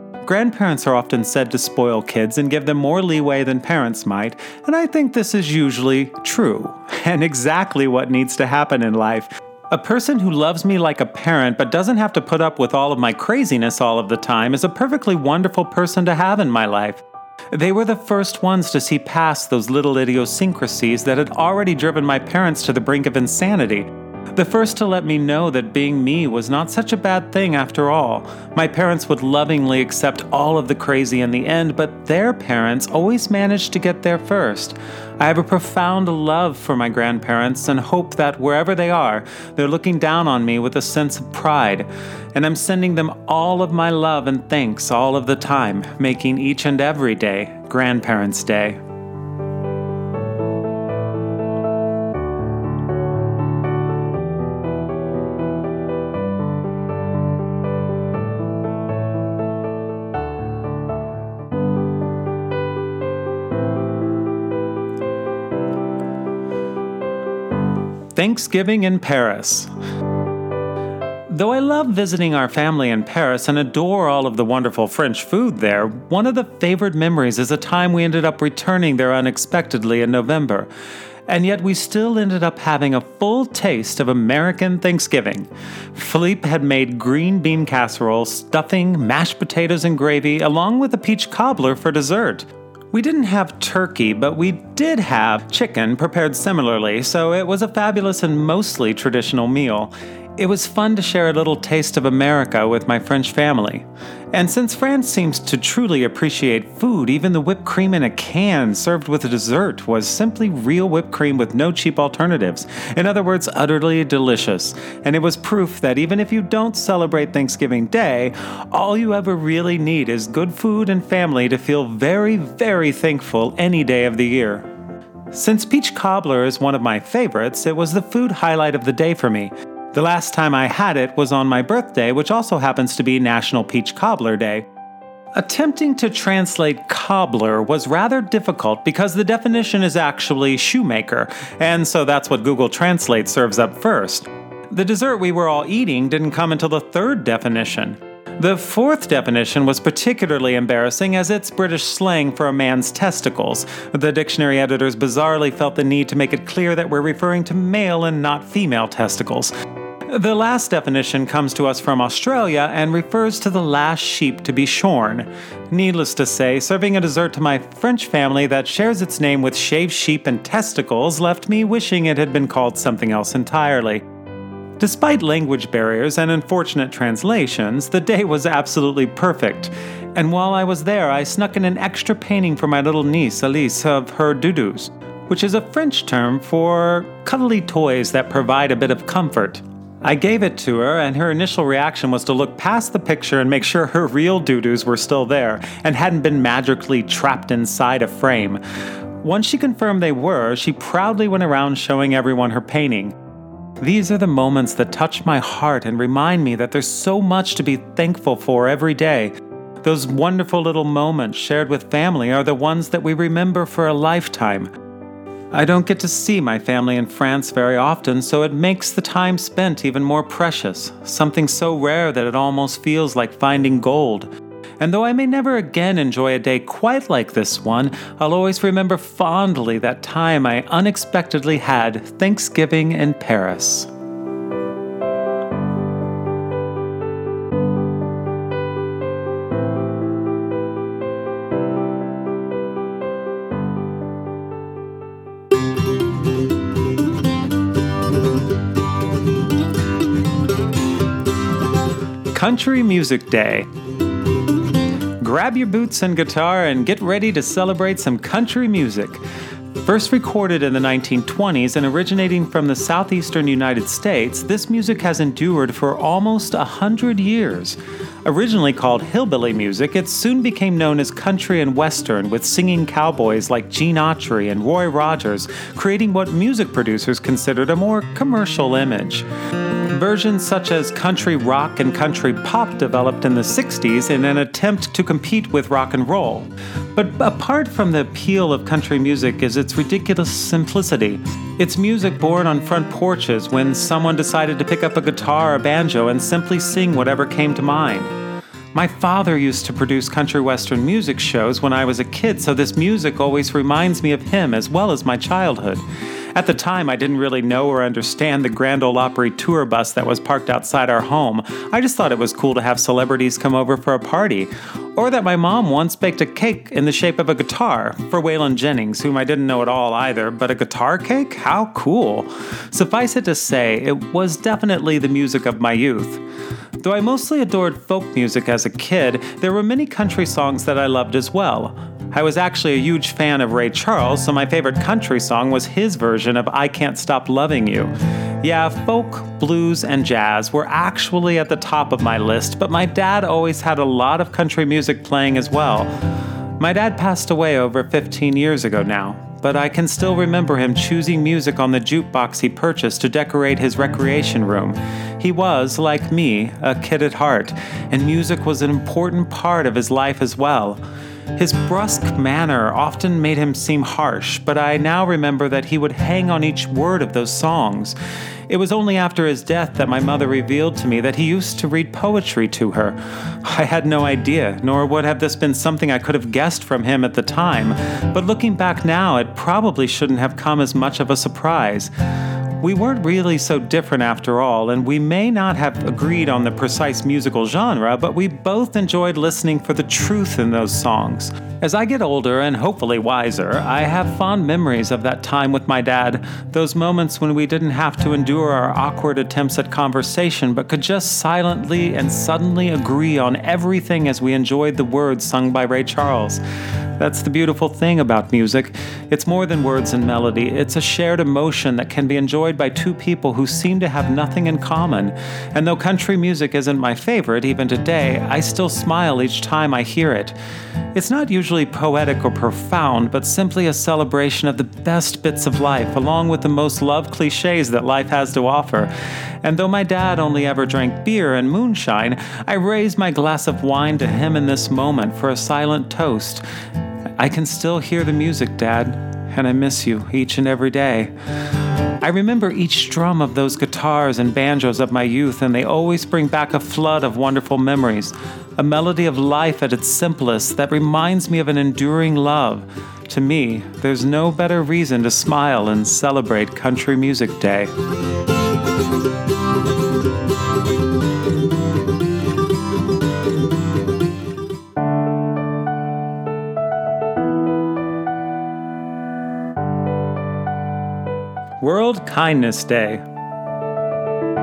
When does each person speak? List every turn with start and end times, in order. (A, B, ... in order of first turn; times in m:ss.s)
0:00.2-0:48.8 A
1:08.2-1:09.7 A
1:11.3-1:20.7 A
1:21.3-2:04.7 A
2:05.3-2:14.7 A
2:15.4-2:39.5 A
2:40.1-2:54.0 A
2:54.8-3:18.6 A
3:19.2-3:23.2 A
3:23.8-3:34.7 A
3:35.5-3:53.9 A
4:12.3-4:13.7 A
4:15.2-4:19.2 A
4:19.8-4:39.3 A
4:39.9-4:58.1 A
4:58.7-5:26.2 A
5:26.8-5:45.9 A
5:46.6-6:00.8 A
6:01.4-6:08.0 A
6:08.5-6:21.9 A
6:22.6-6:46.4 A
6:47.0-7:00.4 A
7:00.9-7:08.9 A
7:09.4-7:16.4 A
7:17.2-7:21.1 A
7:22.0-7:37.7 A
7:51.6-7:53.0 A